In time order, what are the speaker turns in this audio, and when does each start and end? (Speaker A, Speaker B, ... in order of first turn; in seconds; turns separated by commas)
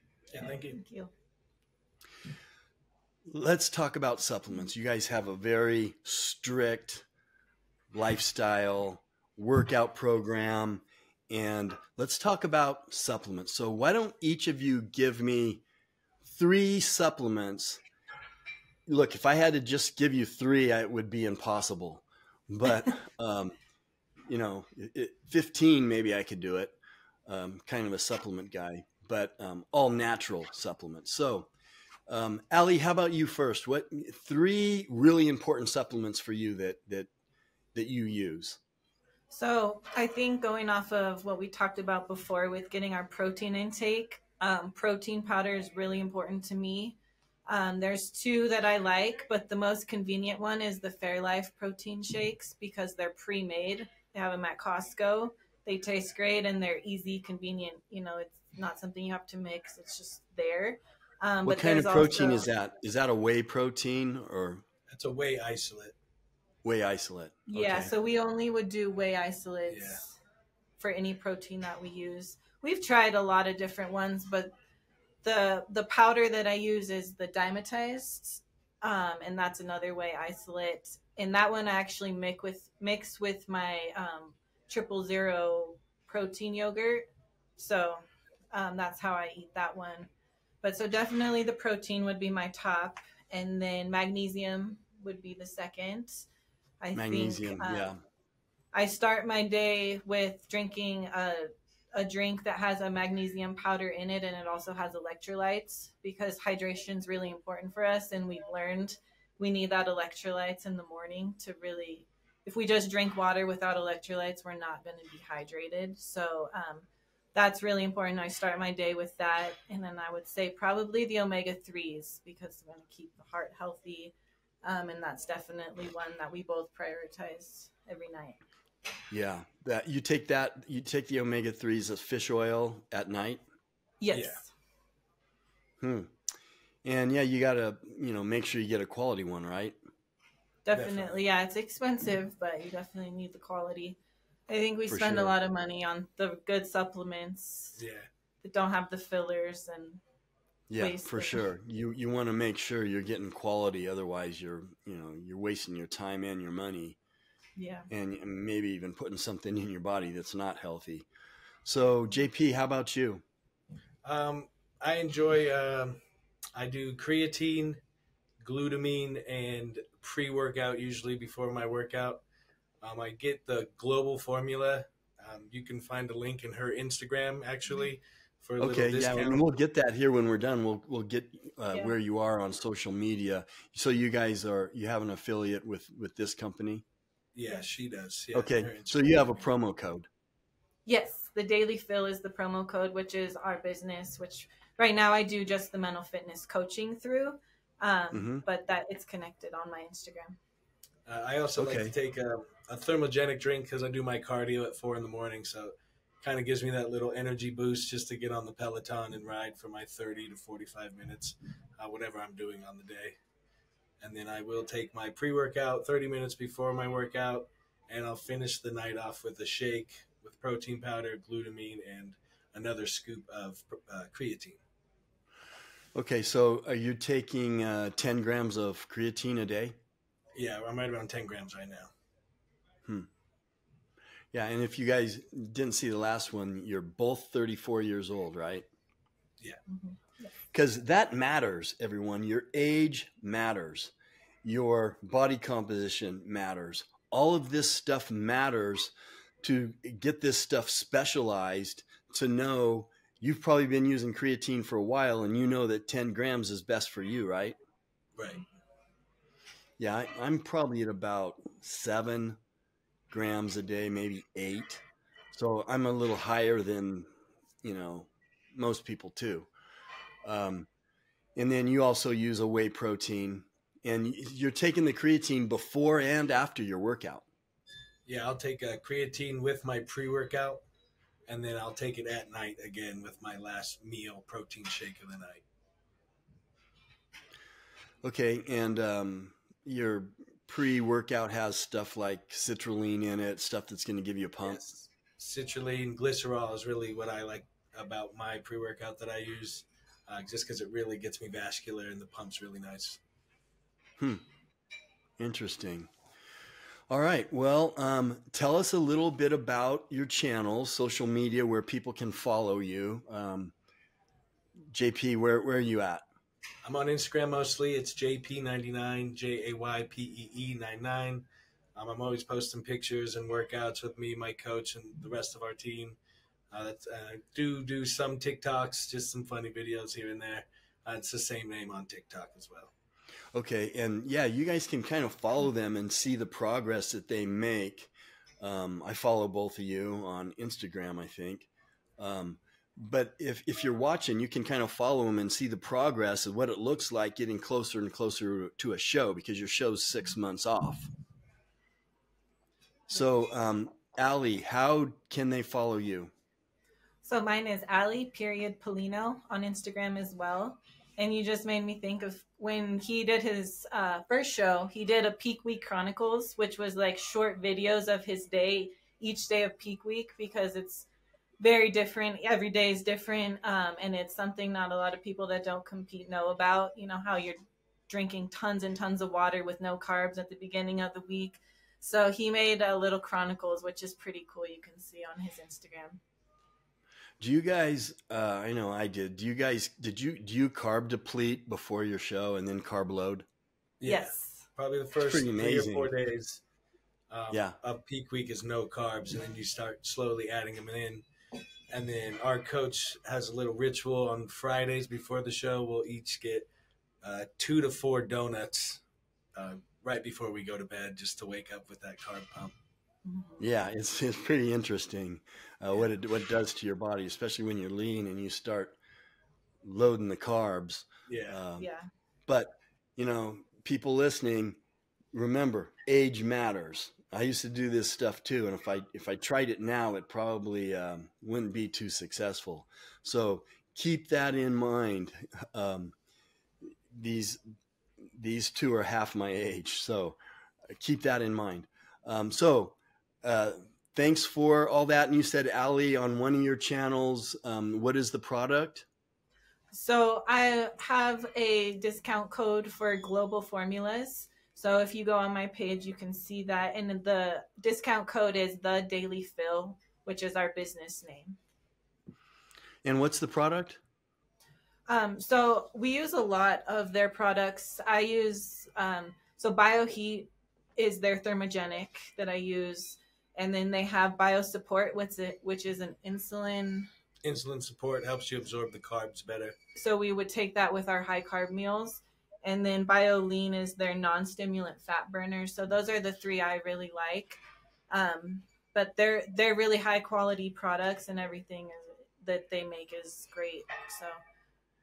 Speaker A: 0.3-0.8, Speaker B: 0.4-1.1, Speaker C: 3.2-7.0, Speaker C: 7.9-15.6, Speaker C: 16.2-17.8, Speaker C: 18.9-23.6, Speaker C: 24.3-31.5, Speaker C: 32.1-37.1, Speaker C: 37.7-38.6, Speaker B: 39.3-62.5, Speaker C: 61.4-64.6, Speaker A: 64.9-65.9, Speaker C: 66.6-67.9, Speaker B: 67.5-70.2, Speaker A: 69.7-70.0, Speaker B: 70.8-74.5, Speaker B: 75.2-90.1, Speaker B: 90.6-96.3, Speaker B: 96.8-98.0, Speaker C: 96.9-98.0, Speaker B: 98.7-128.4, Speaker C: 129.1-133.4, Speaker B: 134.0-134.5, Speaker A: 134.1-134.4, Speaker C: 135.8-136.1, Speaker C: 136.8-139.8, Speaker B: 140.6-147.8, Speaker A: 140.7-141.2, Speaker C: 144.9-145.3, Speaker A: 147.8-148.1, Speaker B: 148.4-150.0, Speaker C: 150.7-157.0, Speaker B: 150.8-151.4, Speaker B: 157.6-157.9, Speaker C: 157.9-161.1, Speaker C: 161.7-163.2, Speaker A: 164.0-166.0, Speaker A: 166.6-167.8, Speaker A: 168.4-172.2, Speaker A: 172.8-179.5, Speaker C: 178.6-186.8, Speaker A: 187.3-189.4, Speaker C: 188.3-190.1, Speaker B: 190.8-200.3, Speaker C: 198.1-198.4, Speaker A: 201.1-213.1, Speaker C: 201.6-201.9, Speaker A: 214.0-224.6, Speaker C: 225.9-229.8, Speaker A: 230.3-231.9, Speaker C: 234.3-238.7, Speaker B: 239.7-240.3, Speaker C: 240.5-257.6, Speaker A: 258.1-258.4, Speaker C: 259.8-262.4, Speaker C: 263.1-267.1, Speaker C: 267.6-269.5, Speaker C: 270.2-270.7, Speaker C: 271.4-277.2, Speaker A: 278.1-280.6, Speaker A: 281.3-285.4, Speaker C: 288.0-294.7, Speaker A: 294.4-303.0, Speaker C: 305.2-305.9, Speaker C: 306.9-313.5, Speaker C: 314.7-316.0, Speaker A: 316.6-326.0, Speaker A: 326.5-332.7, Speaker C: 333.3-350.9, Speaker C: 352.9-356.1, Speaker B: 357.0-370.9, Speaker B: 371.4-377.4, Speaker B: 377.9-386.0, Speaker C: 387.2-393.2, Speaker A: 393.8-396.4, Speaker B: 393.8-394.4, Speaker C: 395.0-395.9, Speaker A: 397.1-401.0, Speaker A: 401.7-406.5, Speaker A: 407.0-408.8, Speaker A: 409.4-412.5, Speaker B: 413.0-413.4, Speaker C: 413.4-418.8, Speaker C: 419.6-421.7, Speaker A: 421.1-421.4, Speaker B: 421.6-421.9, Speaker C: 422.3-424.6, Speaker C: 425.1-435.9, Speaker C: 436.9-437.4, Speaker C: 438.1-440.2, Speaker C: 440.7-448.9, Speaker B: 449.7-461.4, Speaker C: 462.8-463.8, Speaker B: 464.9-476.9, Speaker A: 477.2-479.6, Speaker B: 479.7-494.2